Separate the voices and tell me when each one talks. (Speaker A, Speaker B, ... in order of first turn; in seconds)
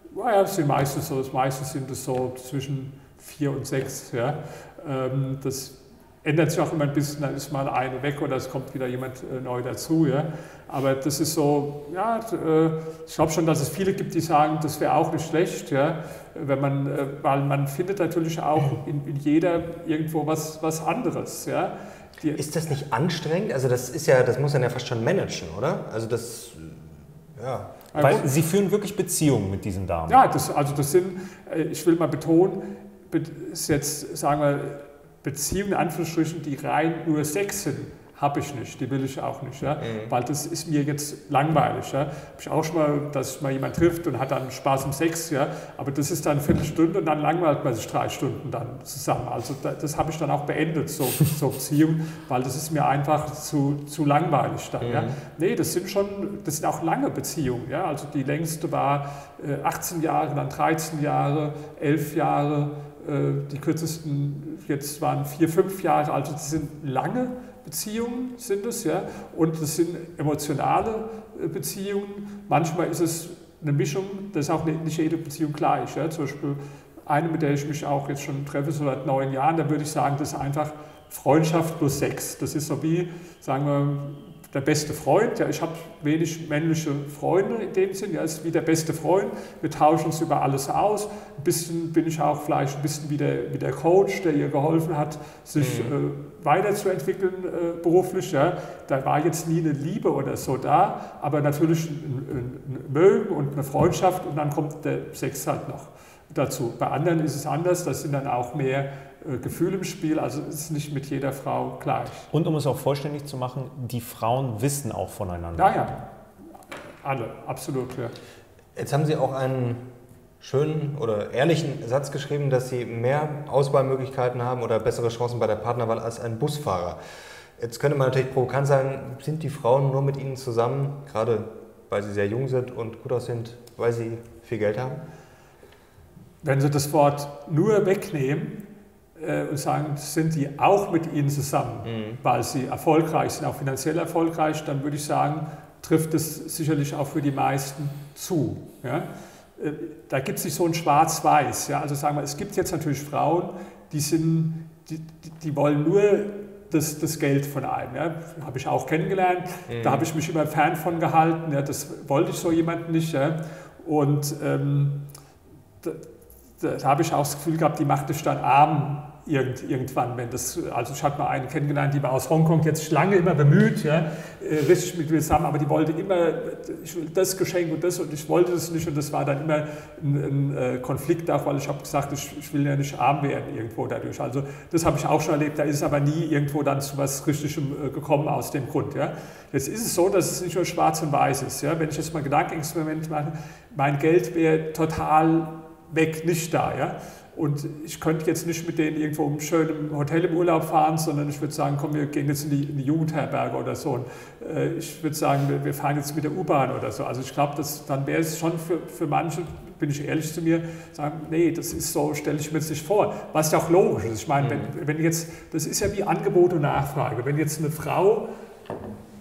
Speaker A: 0.1-22.4, 27.9-28.3, 30.1-112.3, 115.5-116.0, 117.0-118.1, 136.4-138.6, 139.2-165.0, 166.6-218.2
Speaker B: 22.4-27.8, 39.8-40.1, 54.8-55.1, 95.6-95.9, 118.7-119.8, 120.4-127.0, 127.6-135.0, 141.8-142.2, 159.7-160.1, 214.4-214.7
Speaker C: 27.9-30.2, 112.3-115.8